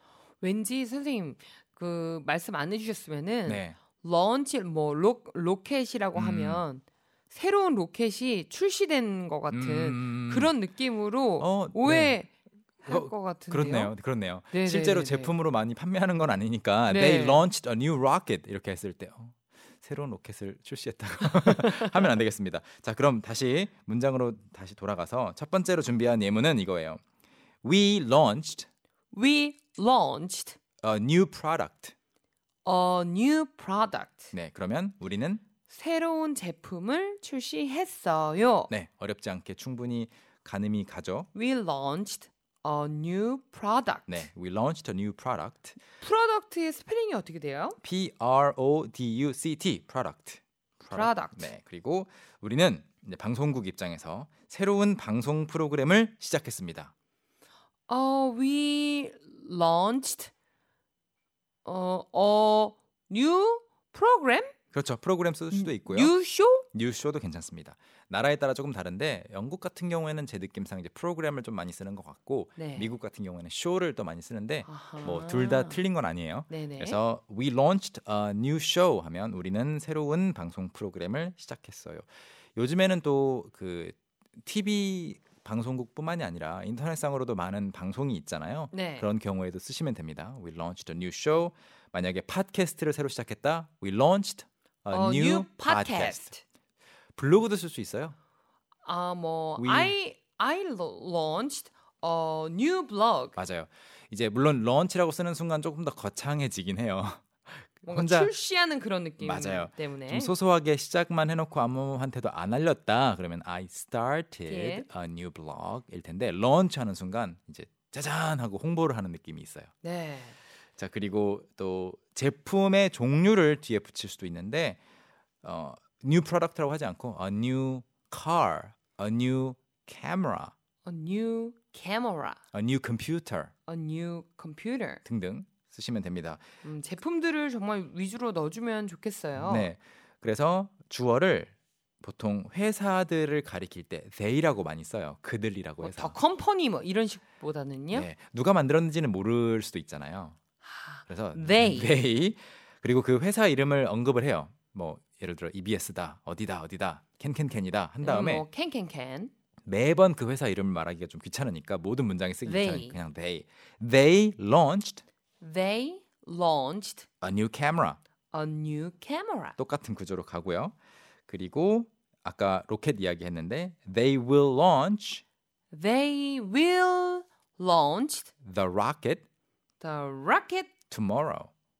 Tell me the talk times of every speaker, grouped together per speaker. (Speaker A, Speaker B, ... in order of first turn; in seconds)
Speaker A: 0.4-13.9, 14.5-15.3, 16.9-17.4, 29.1-30.6, 32.6-34.3, 35.7-38.7, 41.3-44.2, 46.0-47.8, 50.9-51.5, 57.9-60.3, 61.6-64.5, 65.5-66.7, 72.6-72.9, 74.6-75.8, 76.5-77.0, 88.7-89.1, 94.9-96.4, 98.8-103.3, 107.8-110.3, 114.5-114.8, 119.8-120.4, 130.8-132.4, 133.7-135.0, 136.6-139.7, 145.8-148.1, 150.6-151.9, 158.0-159.3, 162.4-163.0, 165.4-167.1, 168.3-169.6, 175.7-178.3, 179.8-180.7
Speaker B: 3.5-3.8, 6.1-6.6, 9.5-10.5, 11.4-12.2, 12.8-27.0, 27.6-28.7, 30.8-31.9, 34.3-35.4, 38.7-41.3, 44.1-45.8, 47.8-56.9, 64.7-66.1, 66.7-96.3, 97.2-98.2, 99.6-99.9, 103.3-108.3, 109.2-119.7, 120.8-124.8, 125.4-130.5, 132.5-133.5, 135.0-136.4, 139.4-146.2, 147.9-150.4, 151.1-158.4, 159.7-165.0, 167.2-168.0, 169.6-170.7, 171.3-175.2, 178.4-179.2, 180.9-181.5